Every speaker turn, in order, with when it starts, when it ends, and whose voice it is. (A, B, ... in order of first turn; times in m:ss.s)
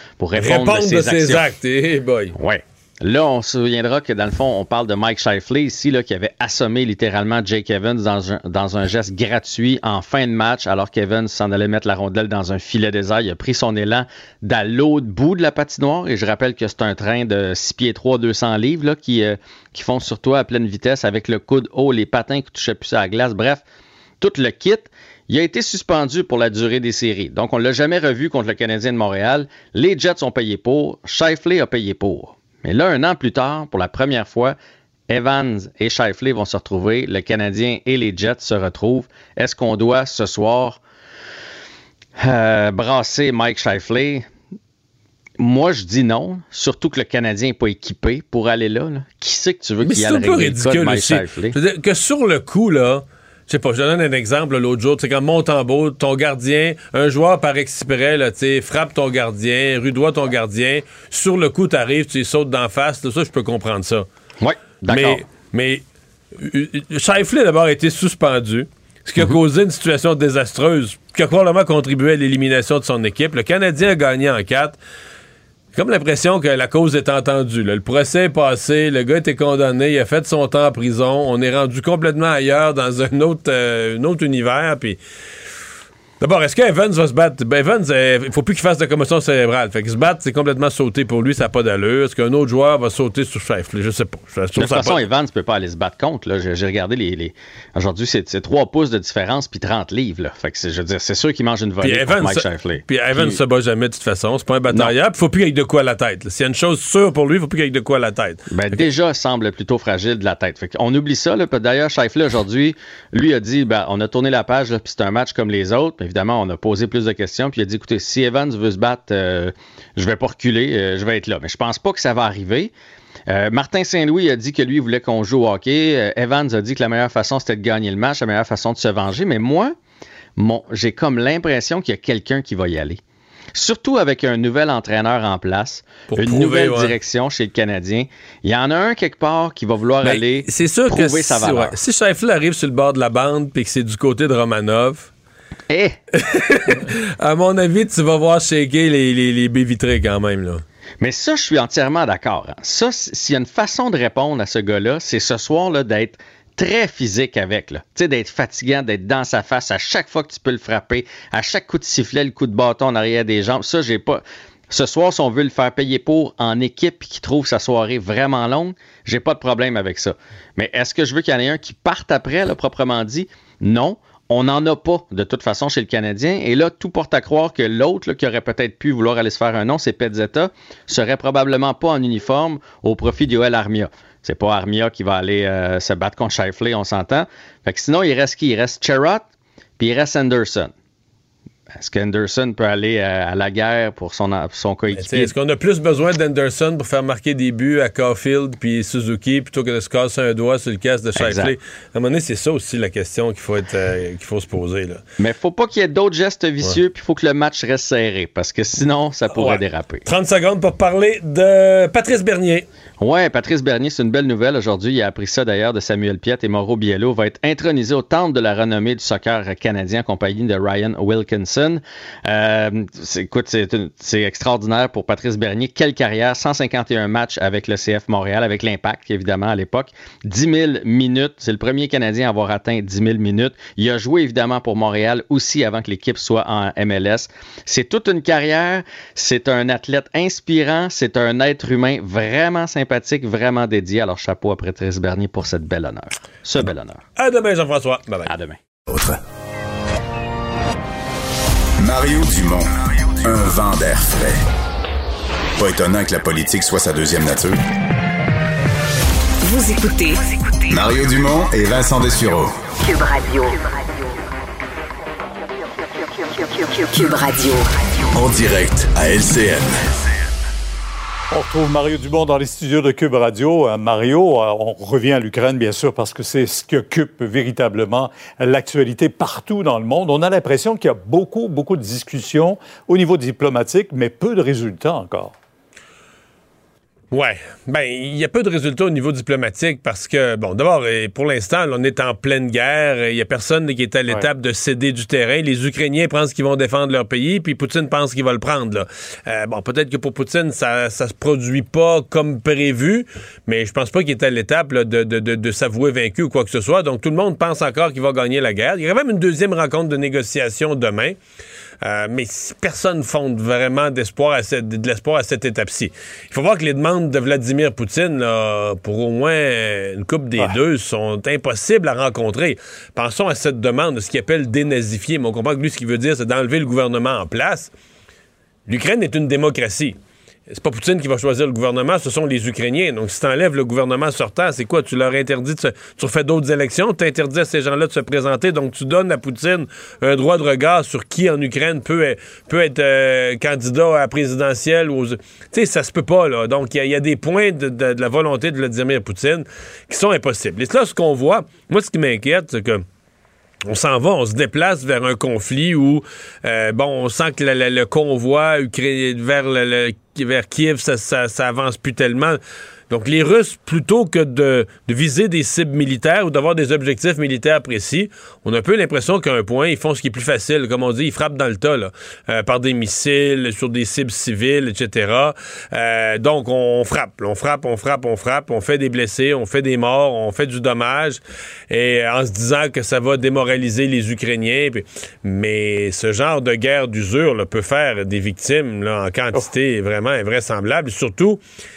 0:00.2-0:01.4 A
0:00.4-0:02.4 B
0:02.3-0:23.6 A
0:24.2-0:34.6 A
0:35.1-0:40.8 A
0:42.2-0:44.2 A
0:45.4-0:51.6 A
0:49.8-1:04.1 B
1:04.4-1:05.2 A
1:04.9-1:05.8 B
1:06.4-1:14.8 B
1:15.8-1:25.0 B
1:26.2-1:35.0 B
1:34.6-1:43.4 A
1:41.8-1:48.9 B
1:48.5-2:02.7 A
2:03.3-2:09.7 A
2:10.4-2:13.0 A
2:13.6-2:21.7 A
2:16.1-2:17.0 B
2:20.0-2:25.1 B
2:25.7-2:26.0 A
2:26.2-2:30.6 B
2:31.0-3:09.3 A
3:09.8-3:10.7 A
3:11.8-3:15.3 A
3:14.9-3:25.0 B
3:21.2-3:21.6 A
3:25.2-3:30.0 A
3:29.3-3:32.7 B
3:33.0-4:07.0 A
4:07.2-4:08.3 B
4:08.3-4:08.6 A
4:11.8-4:14.4 C
4:15.6-4:17.6 C
4:19.4-4:20.2 D
4:20.7-4:22.6 C
4:22.8-4:24.1 D
4:26.6-4:27.9 D
4:28.1-4:29.8 C
4:31.3-4:45.4 E
4:47.1-5:11.2 B
5:11.8-5:27.7 B
5:28.7-5:30.0 B
5:30.5-5:52.8 B
5:53.7-6:02.4 B
6:02.9-6:31.4 B